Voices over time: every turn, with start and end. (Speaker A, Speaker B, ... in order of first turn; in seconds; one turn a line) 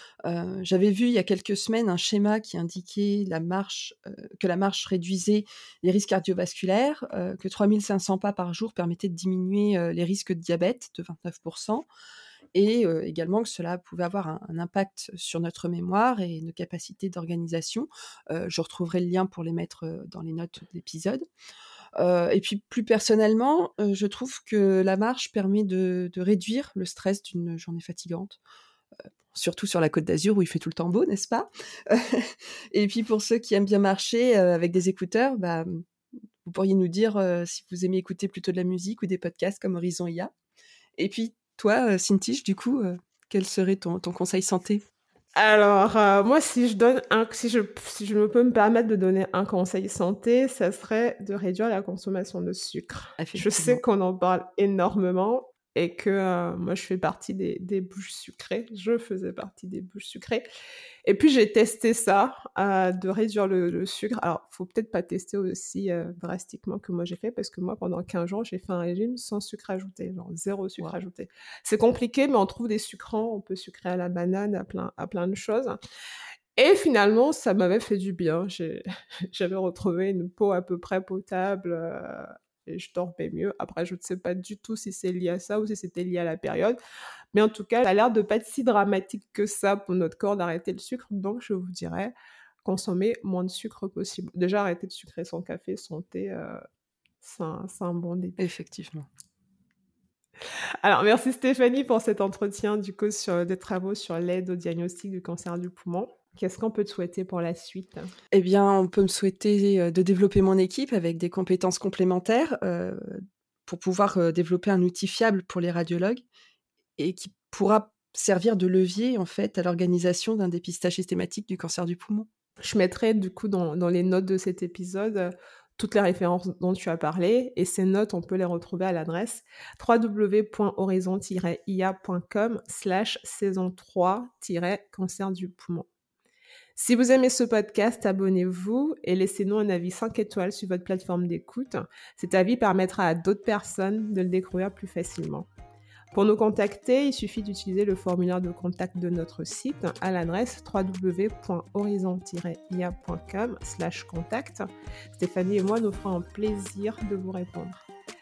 Speaker A: 0.2-11.9
Speaker A: 12.5-21.2
Speaker A: 22.0-28.4
Speaker A: 29.3-35.8
Speaker A: 36.4-40.3
Speaker A: 41.0-44.8
Speaker B: 45.4-60.5
Speaker A: 53.2-53.8
Speaker B: 61.1-75.8
Speaker B: 76.6-86.8
Speaker B: 87.3-92.1
Speaker B: 92.6-96.6
Speaker B: 97.2-98.4
Speaker A: 98.4-99.1
Speaker B: 100.8-108.1
Speaker A: 108.3-116.2
Speaker A: 117.0-122.3
Speaker B: 122.6-135.9
Speaker B: 136.8-145.5
Speaker B: 146.1-157.8